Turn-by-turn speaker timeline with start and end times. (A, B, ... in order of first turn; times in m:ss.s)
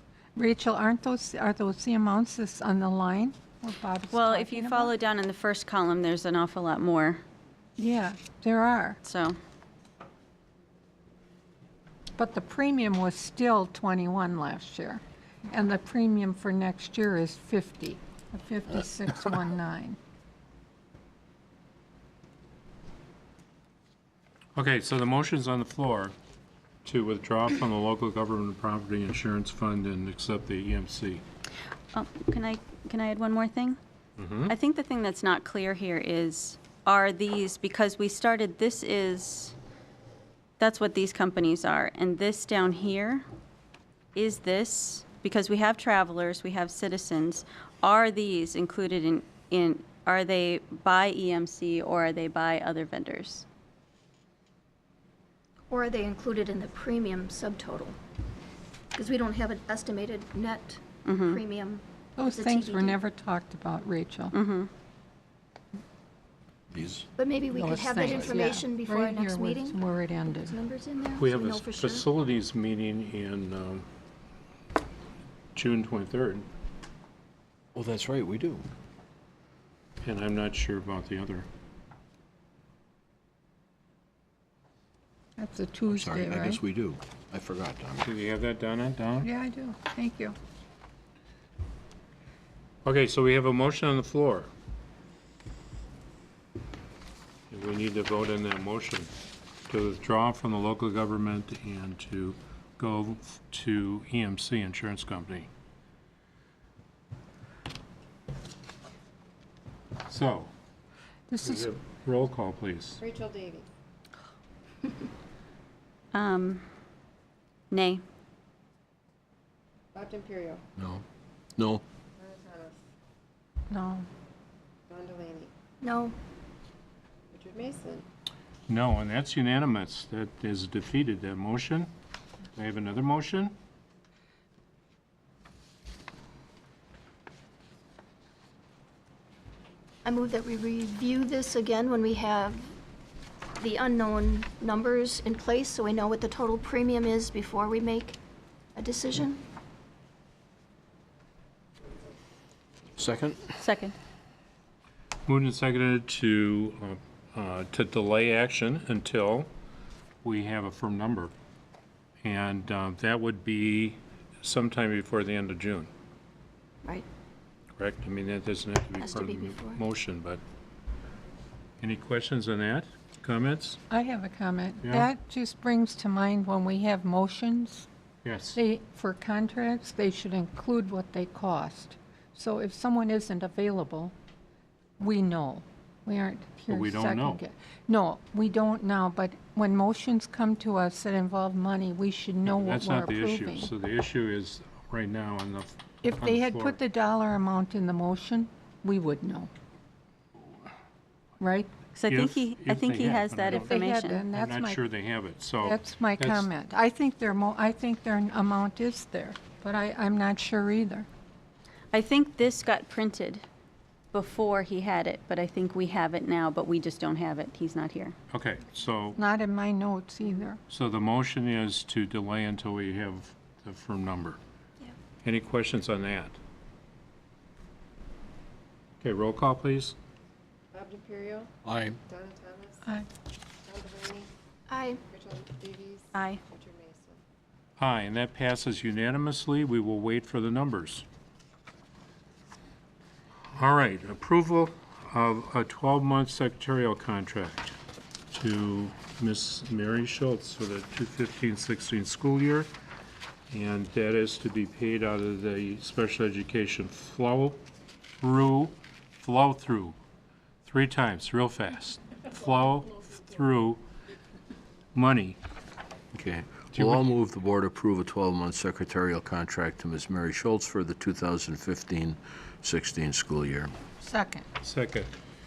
0:00.3-0:04.9 A
0:04.1-0:07.2 B
0:07.8-0:09.0 A
0:09.0-0:09.4 B
0:12.2-0:20.0 A
0:24.6-0:26.1 C
0:26.8-0:31.2 C
0:31.9-0:33.8 B
0:34.2-0:34.5 C
0:34.5-0:39.5 B
0:40.6-0:43.2 B
0:44.1-0:53.4 B
0:55.7-0:58.0 D
0:58.9-1:03.0 D
1:01.0-1:01.4 B
1:02.2-1:04.3 A
1:04.3-1:04.7 B
1:06.7-1:07.1 E
1:07.2-1:12.0 D
1:07.5-1:10.6 A
1:11.2-1:13.8 C
1:15.5-1:16.5 C
1:17.7-1:18.6 E
1:20.0-1:21.4 C
1:25.4-1:26.6 A
1:25.9-1:28.1 E
1:28.0-1:29.3 C
1:29.2-1:30.4 A
1:32.8-1:34.5 C
1:37.5-1:39.1 C
1:39.7-1:45.5 C
1:50.1-1:50.5 C
1:51.3-1:51.7 A
1:51.4-1:53.0 C
1:53.0-1:53.7 F
1:56.1-1:56.6 B
1:57.7-1:58.0 B
1:59.9-2:00.6 F
2:00.8-2:01.0 E
2:01.6-2:01.8 E
2:02.2-2:02.8 F
2:03.7-2:04.1 A
2:04.9-2:05.5 F
2:05.8-2:06.2 D
2:07.3-2:08.1 F
2:08.7-2:11.9 C
2:12.6-2:13.5 C
2:20.0-2:22.7 D
2:23.6-2:28.2 D
2:28.8-2:29.4 D
2:33.0-2:33.5 E
2:33.6-2:33.9 B
2:35.2-2:39.5 C
2:40.2-2:41.3 C
2:42.2-2:45.9 C
2:47.8-2:50.4 C
2:49.0-2:49.8 D
2:51.8-2:53.8 C
2:53.9-2:57.9 A
2:54.8-2:55.1 C
2:58.2-2:58.6 C
2:58.5-3:04.1 A
3:05.0-3:13.7 A
3:06.7-3:07.4 C
3:12.4-3:16.8 C
3:16.0-3:19.5 A
3:21.4-3:21.7 A
3:21.9-3:24.2 B
3:22.1-3:23.8 C
3:23.5-3:24.8 A
3:24.3-3:26.5 C
3:25.6-3:31.1 A
3:31.9-3:33.4 B
3:34.1-3:38.2 B
3:38.3-3:39.2 C
3:39.2-3:40.6 A
3:40.7-3:44.4 C
3:45.2-3:46.4 C
3:49.0-3:49.9 C
3:50.7-3:51.5 F
3:51.6-3:52.0 E
3:52.0-3:52.9 F
3:53.6-3:54.3 F
3:54.7-3:55.0 D
3:55.1-3:57.2 F
3:56.1-3:56.4 B
3:57.8-4:01.0 C
4:03.5-4:07.8 C
4:08.3-4:12.7 C
4:13.5-4:17.6 C
4:18.2-4:20.0 C
4:20.6-4:23.8 C
4:24.9-4:25.4 C
4:26.1-4:33.7 E
4:26.7-4:27.0 C
4:34.0-4:34.4 A
4:34.6-4:35.1 C